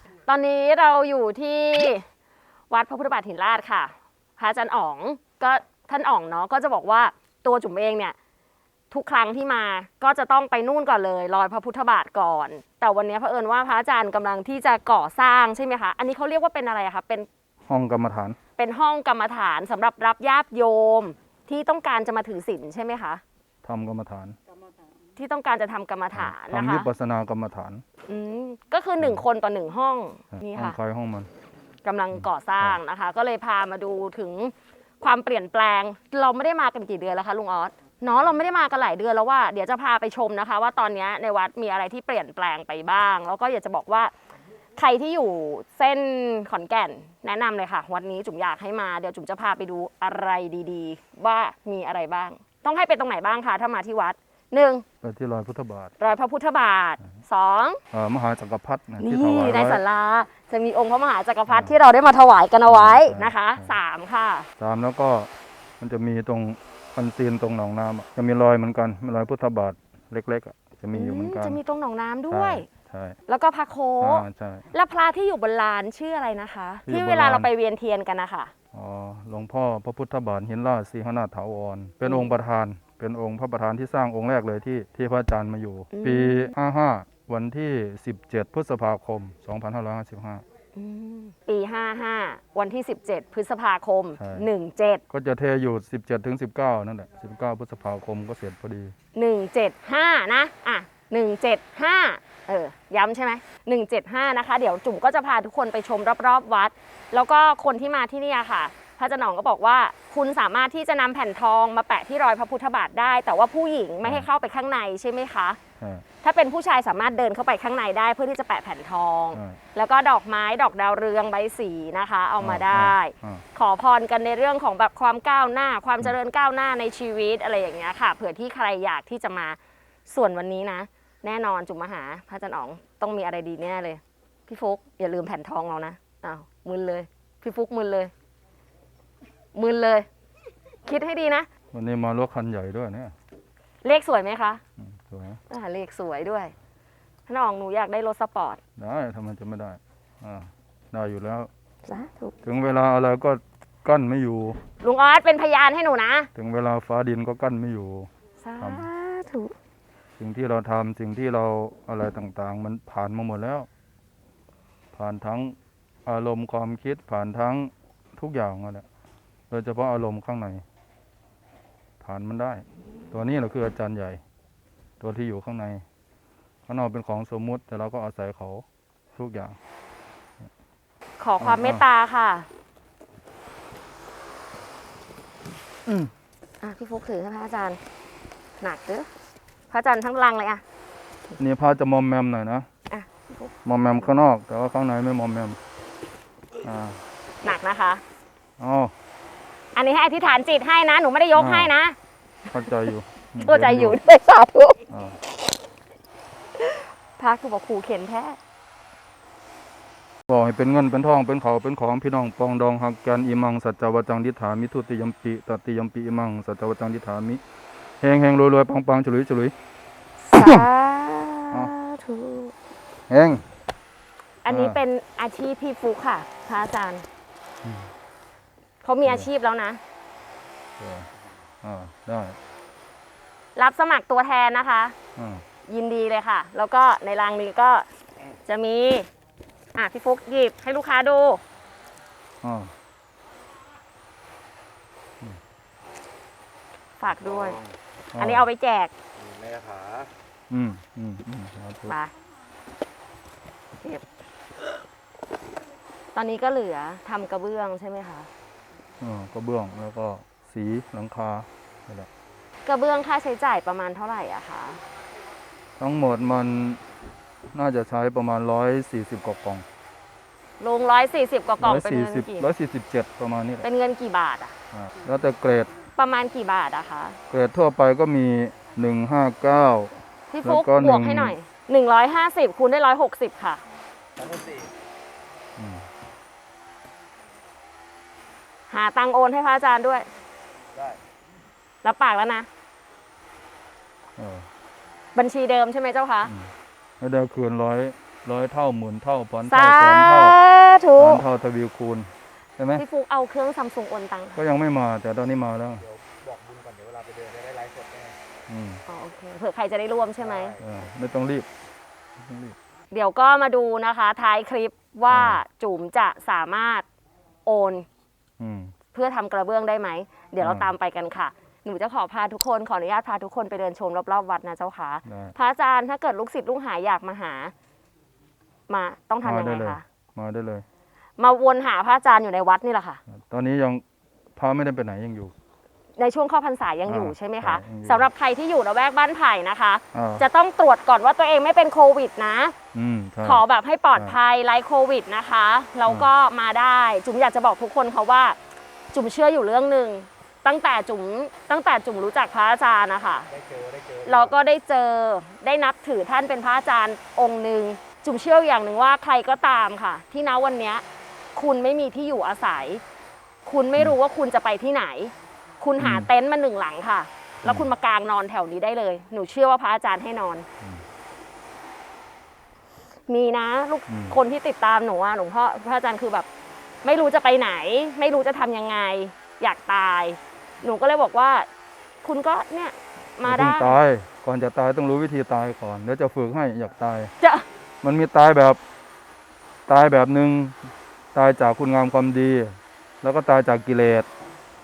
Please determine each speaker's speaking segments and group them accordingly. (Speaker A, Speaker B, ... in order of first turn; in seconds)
Speaker A: 0.2-2.0, 2.7-8.2, 8.9-17.3, 18.6-23.2, 25.1-26.9, 28.1-30.8, 31.8-44.1, 44.8-54.8, 56.0-57.8, 59.0-64.5, 70.9-72.7, 73.3-78.5, 82.0-82.3, 85.9-86.5, 90.8-95.0, 99.1-115.6, 116.2-138.1, 139.5-140.1, 140.8-141.5, 143.8-144.6, 145.5-146.5, 147.3-148.6, 151.9-152.3, 154.8-156.3, 158.4-159.5, 181.2-182.5, 186.6-187.8, 188.6-189.1, 189.7-190.6, 192.9-193.5, 197.4-198.0, 199.7-201.9, 203.4-204.8, 206.6-208.4, 220.2-222.5, 224.4-227.1, 228.8-229.8, 233.6-234.9, 235.7-237.9, 238.4-239.1, 239.7-241.4, 247.0-247.6, 248.2-248.9, 251.9-252.1, 256.1-258.3, 262.6-264.8, 270.6-272.5, 273.6-274.5, 275.9-277.2, 280.3-283.6, 288.7-290.1, 291.8-292.5, 295.1-296.3, 299.4-301.2, 302.7-304.4, 308.9-310.6, 312.9-316.9, 317.4-317.9, 318.9-327.5, 328.7-329.8, 331.2-333.0, 336.0-342.5, 343.2-348.4, 348.9-353.3, 354.0-362.8, 363.4-370.4, 373.1-376.3, 376.8-381.5, 382.0-383.8, 387.2-387.4
Speaker B: 17.7-18.4, 23.6-24.4, 26.1-27.8, 30.3-31.3, 32.1-32.8, 55.0-55.9, 57.9-59.8, 61.5-61.7, 62.7-63.8, 64.6-71.6, 72.3-73.2, 74.0-74.7, 76.9-77.5, 78.7-90.4, 94.2-94.5, 95.1-98.9, 115.8-116.0, 119.3-119.6, 122.4-123.4, 141.7-143.1, 144.8-145.4, 148.8-151.5, 152.4-154.6, 156.3-158.9, 160.2-163.7, 164.9-168.9, 169.5-170.6, 172.0-174.2, 175.0-175.8, 176.7-179.6, 181.4-181.8, 191.4-192.7, 193.6-195.6, 196.6-197.0, 198.6-198.9, 201.3-201.7, 202.5-204.0, 204.9-205.2, 210.3-217.4, 218.0-219.5, 220.4-220.7, 223.1-223.4, 224.5-224.8, 227.6-227.9, 230.8-231.1, 231.6-232.4, 235.2-235.4, 242.4-242.7, 248.1-248.4, 250.5-251.9, 259.0-262.1, 265.8-266.8, 267.5-269.6, 271.6-273.7, 274.7-275.7, 277.3-281.3, 285.6-285.9, 294.2-294.5, 296.2-300.4, 301.0-302.8, 304.4-305.8, 308.5-308.8, 310.6-311.5, 312.2-312.6, 315.1-315.4, 318.4-318.7, 320.4-320.7, 325.0-325.3, 329.2-330.6, 333.1-333.8, 334.4-335.3, 336.9-338.1, 339.9-340.2, 342.7-343.4, 365.8-366.1, 373.9-374.2, 383.2-387.1, 387.8-388.6, 389.7-390.6, 391.1-394.1
Speaker C: 249.3-250.1, 284.2-284.7, 306.1-308.2, 353.4-354.1